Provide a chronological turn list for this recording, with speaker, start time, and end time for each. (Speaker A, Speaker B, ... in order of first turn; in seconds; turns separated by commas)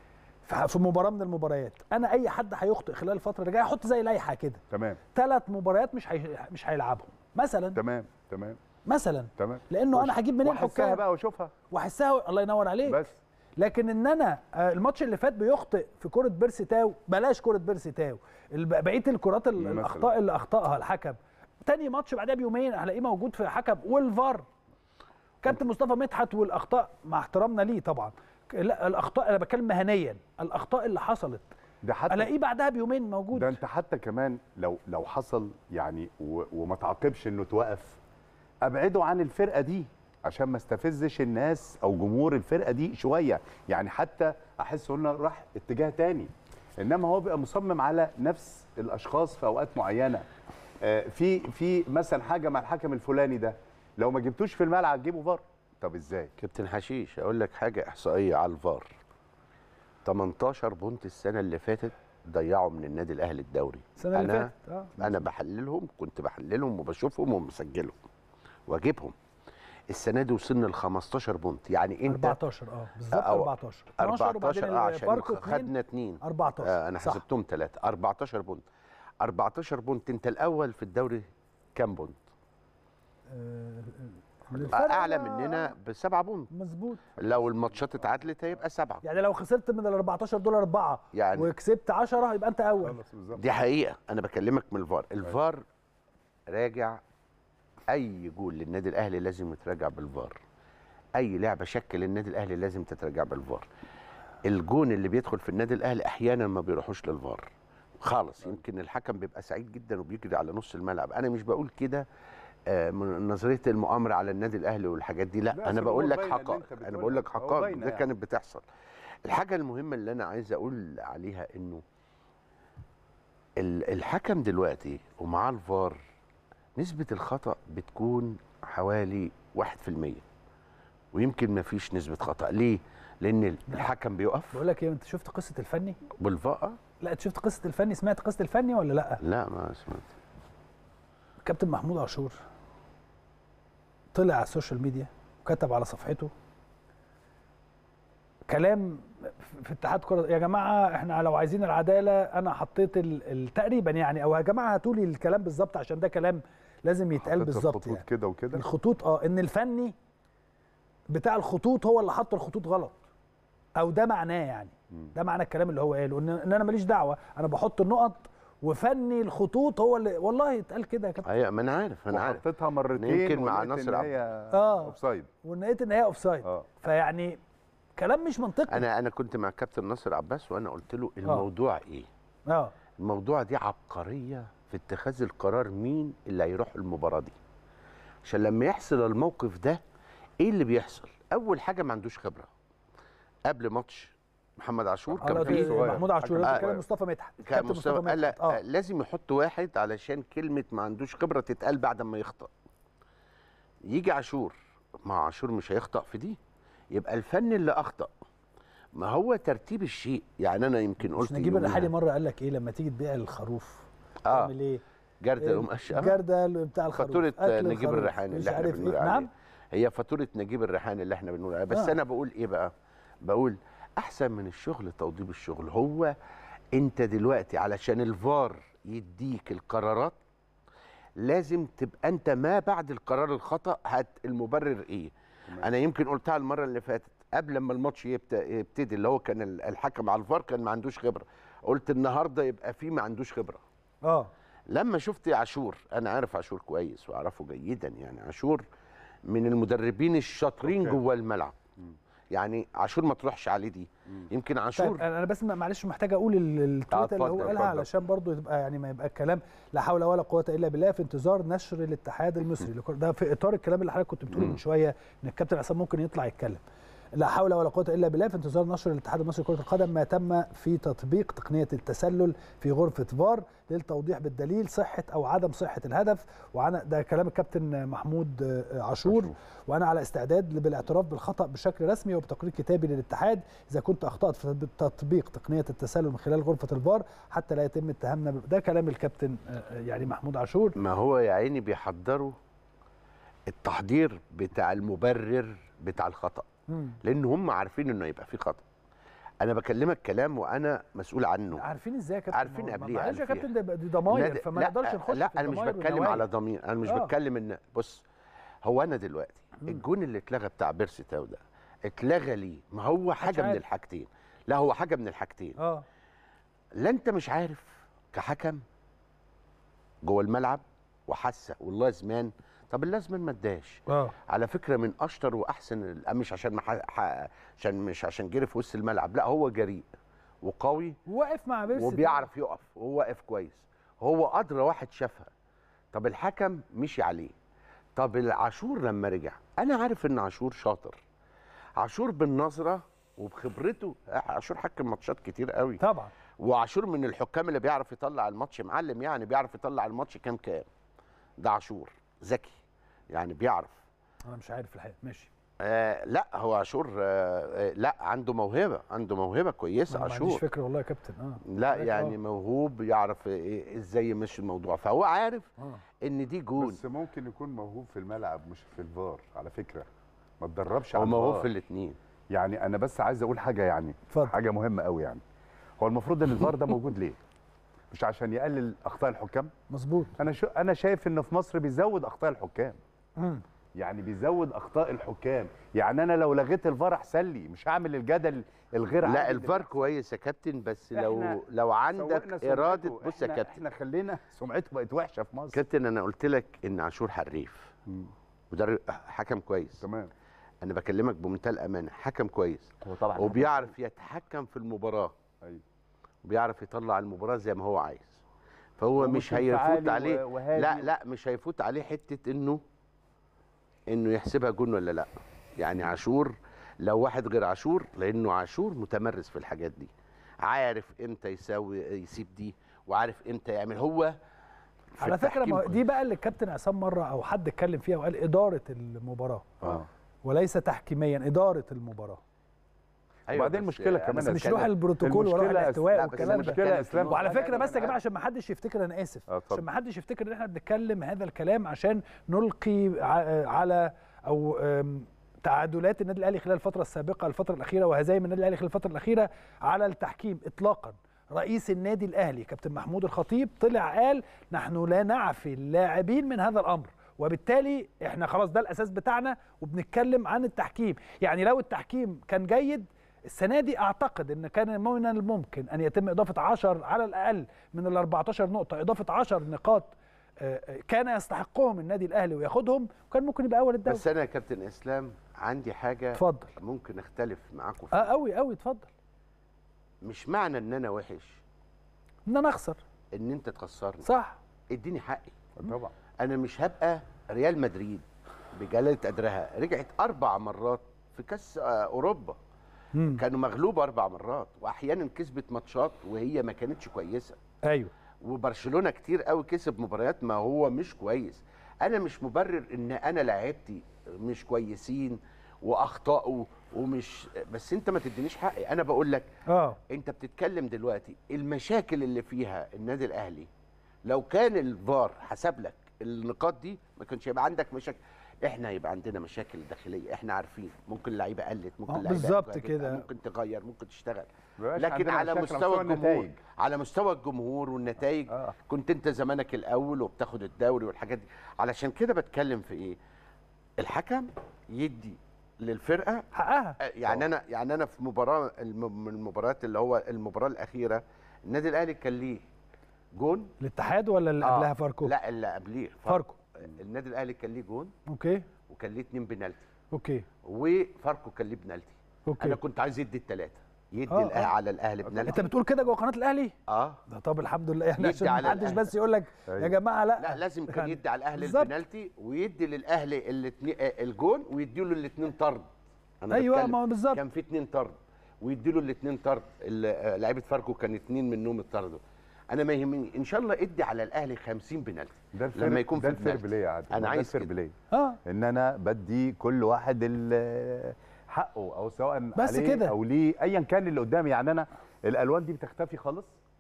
Speaker A: 0.5-4.6, Speaker B: 4.7-5.0, Speaker A: 5.1-7.8, Speaker B: 7.8-8.6, Speaker A: 8.9-11.0, Speaker B: 9.4-11.5, Speaker A: 11.7-13.1, Speaker B: 12.9-13.2, Speaker A: 13.6-24.5, Speaker B: 19.6-20.1, Speaker A: 25.4-31.5, Speaker B: 31.8-32.3, Speaker A: 32.1-33.6, Speaker B: 33.3-38.0, Speaker B: 38.6-50.3, Speaker B: 50.8-56.3, Speaker C: 56.4-58.9, Speaker C: 60.0-68.0, Speaker A: 64.0-64.9, Speaker C: 68.7-69.2, Speaker C: 69.9-72.4, Speaker A: 72.1-75.7, Speaker C: 73.1-78.6, Speaker A: 76.2-77.2, Speaker C: 79.2-81.2, Speaker C: 81.8-82.2, Speaker A: 83.3-85.7, Speaker C: 84.6-86.5, Speaker A: 86.5-87.0, Speaker C: 87.2-89.0, Speaker B: 87.2-87.8, Speaker A: 89.0-93.0, Speaker C: 91.1-91.5, Speaker B: 92.8-93.4, Speaker C: 93.4-95.6, Speaker C: 96.5-97.0, Speaker C: 97.9-100.4, Speaker C: 101.2-103.7, Speaker C: 104.4-107.5, Speaker C: 108.0-112.1, Speaker C: 112.7-118.6, Speaker B: 115.5-118.1, Speaker C: 119.2-121.8, Speaker C: 123.6-126.0, Speaker C: 126.8-130.2, Speaker C: 131.1-134.6, Speaker A: 134.5-136.0, Speaker C: 136.2-136.8, Speaker A: 137.0-139.2, Speaker C: 139.2-140.1, Speaker A: 141.4-142.4, Speaker A: 144.1-146.3, Speaker A: 148.5-159.9, Speaker B: 157.2-158.6, Speaker A: 161.1-163.0, Speaker A: 163.8-171.3, Speaker C: 171.2-172.4, Speaker B: 172.1-175.3, Speaker C: 173.0-174.1, Speaker A: 174.5-177.4, Speaker A: 178.0-178.8, Speaker C: 178.7-182.1, Speaker A: 182.5-182.7, Speaker C: 183.0-187.3, Speaker C: 188.2-189.8, Speaker C: 190.4-192.5, Speaker C: 193.5-195.8, Speaker B: 195.1-196.8, Speaker A: 195.2-198.6, Speaker C: 197.4-202.5, Speaker C: 203.8-206.4, Speaker C: 206.9-208.1, Speaker C: 208.9-211.9, Speaker A: 211.2-214.8, Speaker C: 214.3-214.5, Speaker C: 215.2-216.2, Speaker A: 215.4-219.3, Speaker C: 216.9-222.7, Speaker C: 223.2-226.2, Speaker C: 226.7-230.2, Speaker C: 231.2-243.6, Speaker A: 244.0-244.3, Speaker C: 244.7-248.6, Speaker C: 249.3-251.6, Speaker B: 250.7-251.0, Speaker C: 252.3-255.0, Speaker A: 254.8-266.6, Speaker C: 256.9-257.9, Speaker A: 267.1-290.8, Speaker B: 279.1-279.4, Speaker C: 290.8-292.4, Speaker C: 293.5-296.5, Speaker A: 296.7-297.0, Speaker C: 297.0-298.6, Speaker C: 299.4-301.6, Speaker A: 301.5-306.3, Speaker C: 302.3-303.5, Speaker C: 304.1-308.0, Speaker A: 306.9-307.1, Speaker C: 308.6-315.6, Speaker A: 313.2-313.6, Speaker A: 315.6-315.9, Speaker C: 316.8-318.6, Speaker C: 320.0-329.9, Speaker A: 323.9-324.1, Speaker C: 330.4-331.0, Speaker A: 331.1-332.3, Speaker C: 331.8-335.3, Speaker C: 335.9-337.3, Speaker C: 338.0-341.0, Speaker C: 341.8-345.8, Speaker A: 345.8-346.1, Speaker C: 346.4-350.7, Speaker C: 351.4-352.6, Speaker C: 353.1-353.8, Speaker A: 354.3-355.3, Speaker C: 355.6-360.4, Speaker A: 359.9-362.1, Speaker C: 361.5-365.5, Speaker C: 366.0-366.8, Speaker B: 366.6-369.9, Speaker B: 370.4-371.5, Speaker C: 370.9-372.0, Speaker B: 372.3-375.2, Speaker A: 374.1-374.4, Speaker B: 375.8-377.2, Speaker B: 377.9-379.5, Speaker A: 379.7-380.1, Speaker B: 380.1-382.8, Speaker A: 383.2-383.4, Speaker B: 383.8-389.7, Speaker C: 389.0-393.6, Speaker B: 390.9-391.4, Speaker B: 391.9-395.6, Speaker C: 395.5-397.7, Speaker B: 397.9-398.1, Speaker C: 398.5-399.8, Speaker B: 399.8-400.1, Speaker C: 400.6-405.1, Speaker B: 402.8-403.7, Speaker C: 406.2-408.2, Speaker C: 408.8-412.6, Speaker B: 409.0-410.9, Speaker C: 413.9-419.9, Speaker C: 420.4-424.1, Speaker C: 424.9-425.8, Speaker A: 425.0-429.5, Speaker B: 429.6-429.9, Speaker A: 430.2-432.2, Speaker C: 433.3-434.7, Speaker B: 433.3-437.4, Speaker A: 434.2-474.0, Speaker C: 435.7-438.0, Speaker B: 439.3-439.6, Speaker C: 473.9-478.1, Speaker A: 476.1-476.5, Speaker A: 477.9-478.9, Speaker C: 480.0-481.4, Speaker A: 482.3-482.8, Speaker C: 483.1-484.1, Speaker A: 484.1-484.4, Speaker C: 484.7-485.4, Speaker B: 485.6-485.9, Speaker C: 486.2-492.4, Speaker A: 492.9-493.2, Speaker C: 493.2-497.4, Speaker A: 497.6-497.9, Speaker C: 498.2-509.3, Speaker A: 509.5-509.8, Speaker C: 509.9-513.5, Speaker C: 514.1-533.0, Speaker A: 521.9-523.0, Speaker B: 524.6-526.4, Speaker C: 533.8-536.3, Speaker A: 536.3-536.8, Speaker C: 536.8-542.4, Speaker C: 543.1-543.5, Speaker A: 543.6-545.1, Speaker C: 544.4-547.9, Speaker A: 546.1-546.4, Speaker A: 548.1-548.5, Speaker C: 548.7-549.7, Speaker A: 549.9-550.2, Speaker C: 550.4-555.4, Speaker A: 552.3-552.6, Speaker A: 554.1-554.5, Speaker B: 555.0-555.4, Speaker A: 555.3-556.5, Speaker C: 556.7-557.0, Speaker A: 557.1-561.7, Speaker C: 558.0-558.9, Speaker B: 559.5-559.8, Speaker C: 560.2-565.7, Speaker C: 566.2-572.0, Speaker A: 566.3-567.2, Speaker C: 572.5-577.5, Speaker B: 575.3-586.4, Speaker A: 577.9-578.2, Speaker A: 582.4-582.9